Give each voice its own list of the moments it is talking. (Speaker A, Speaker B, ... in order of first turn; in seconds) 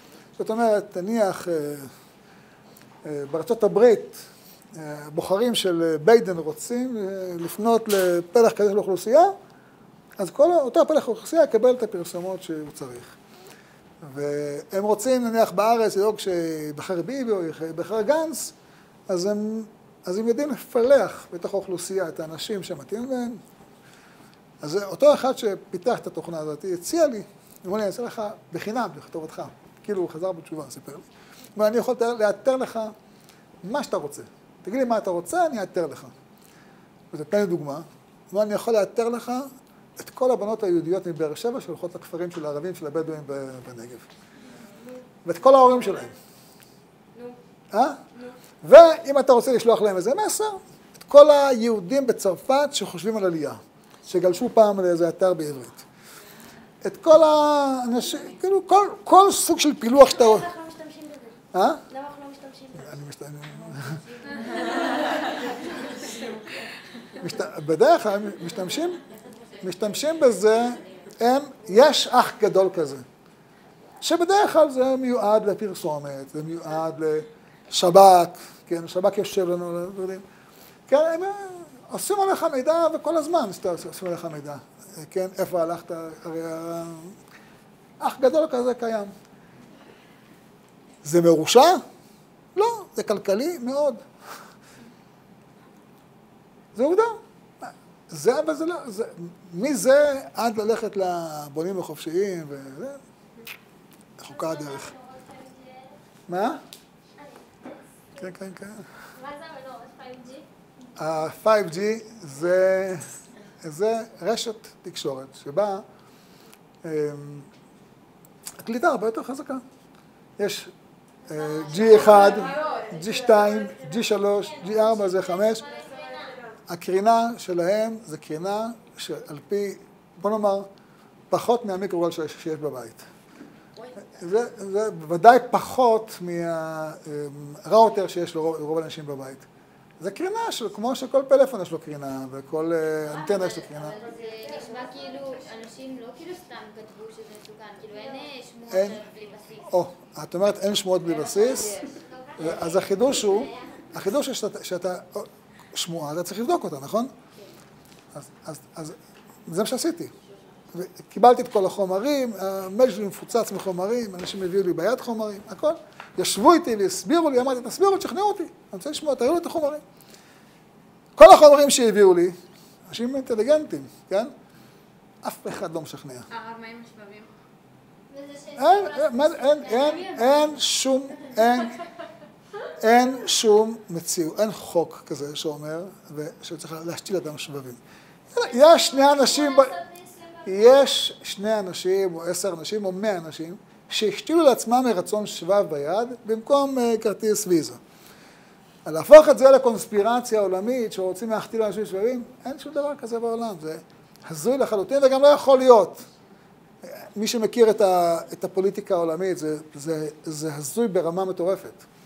Speaker A: 0.4-1.9, 3.0-4.2, 4.7-9.3, 10.2-13.2, 14.0-18.5, 19.1-23.4, 24.6-32.9, 33.6-36.1, 37.1-44.1, 45.2-46.1, 47.7-48.0, 48.6-55.9, 56.8-60.5, 61.5-61.8, 62.8-64.0, 67.2-69.0, 69.6-73.0, 74.0-80.2, 80.9-87.2, 88.0-89.1, 91.0-91.8, 92.6-94.0, 96.8-103.0, 104.2-104.9, 106.3-106.6, 108.2-109.1, 111.0-115.8, 116.8-117.5, 118.6-119.6, 120.4-120.7, 121.3-125.7, 126.7-130.7, 131.3-133.1, 134.1-139.5, 140.0-144.0, 148.7-149.0, 149.6-151.8, 152.4-157.1, 158.1-160.1, 160.7-169.8, 171.2-174.3, 175.2-176.3, 178.6-181.8, 182.8-187.8, 188.3-189.8, 190.4-197.8, 198.8-206.1, 206.8-211.8
Speaker B: 60.0-66.3, 104.3-106.0, 107.2-108.2, 109.1-110.5, 121.8-122.8, 124.1-126.4, 143.8-145.5, 151.3-154.1, 178.1-180.6, 188.4-190.8
Speaker C: 64.4-64.7, 144.1-145.2, 176.3-177.3
Speaker D: 121.6-123.8, 125.6-126.5, 143.1-149.8, 151.3-152.0